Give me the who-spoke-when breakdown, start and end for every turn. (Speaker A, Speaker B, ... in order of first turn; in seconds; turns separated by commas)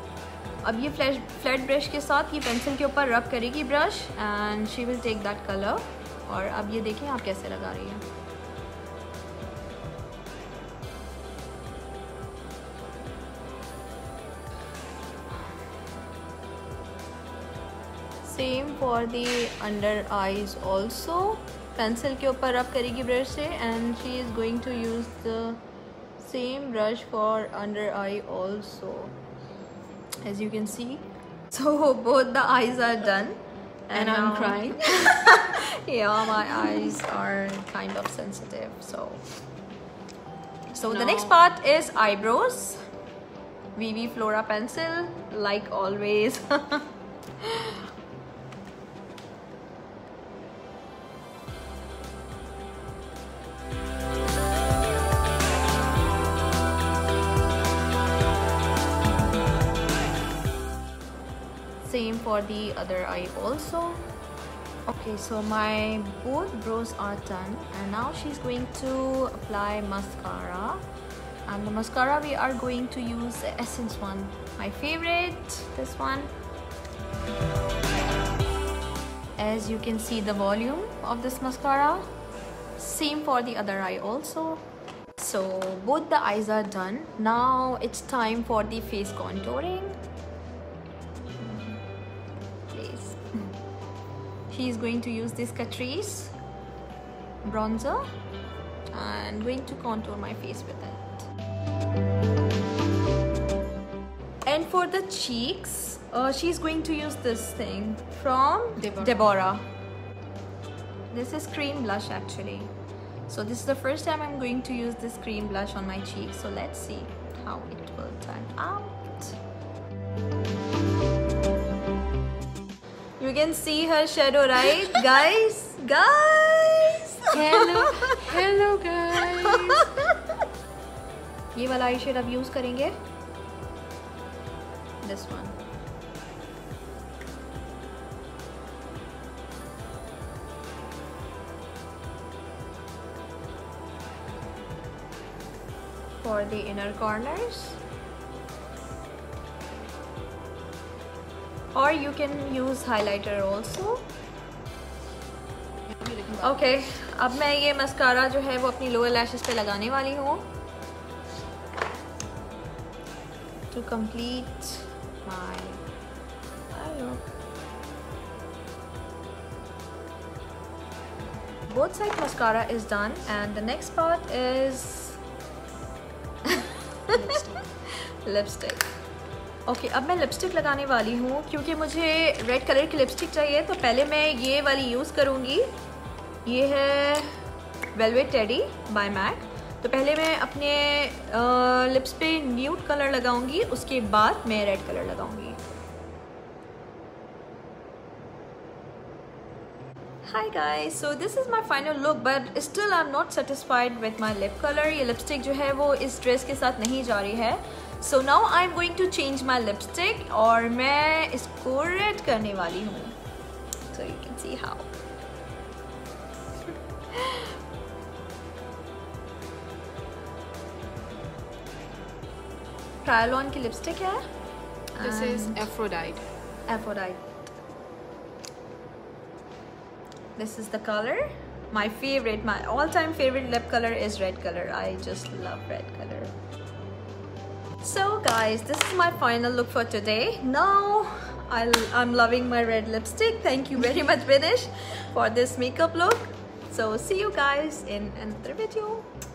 Speaker A: 0.6-8.1, Speaker A: 18.2-25.6, Speaker A: 26.2-29.2, Speaker A: 30.2-39.2, Speaker B: 33.9-35.3, Speaker A: 40.7-42.8, Speaker B: 40.8-41.4, Speaker A: 43.8-46.9, Speaker A: 47.4-47.8, Speaker A: 61.8-64.1, Speaker A: 64.9-70.8, Speaker A: 71.5-76.3, Speaker A: 79.4-82.1, Speaker A: 82.8-90.0, Speaker A: 91.4-91.8, Speaker A: 92.7-93.2, Speaker A: 94.5-96.3, Speaker A: 97.4-98.1, Speaker A: 98.9-101.3, Speaker A: 104.5-109.7, Speaker B: 108.8-109.2, Speaker A: 111.1-112.7, Speaker A: 113.3-119.4, Speaker A: 123.2-128.4, Speaker B: 127.3-129.9, Speaker A: 129.4-130.2, Speaker A: 131.5-133.0, Speaker A: 135.0-135.6, Speaker A: 146.2-147.8, Speaker A: 151.7-154.1, Speaker B: 155.9-156.6, Speaker A: 156.4-160.5, Speaker A: 163.7-165.8, Speaker A: 166.7-167.3, Speaker A: 171.7-175.2, Speaker A: 176.5-178.9, Speaker B: 177.1-177.6, Speaker A: 179.7-185.8, Speaker A: 186.4-187.3, Speaker A: 187.9-195.6, Speaker A: 200.2-213.2, Speaker A: 213.9-214.9, Speaker A: 217.1-217.5, Speaker A: 223.0-224.2, Speaker A: 224.9-225.7, Speaker B: 225.0-226.3, Speaker A: 226.7-227.2, Speaker A: 230.4-236.3, Speaker A: 237.8-249.1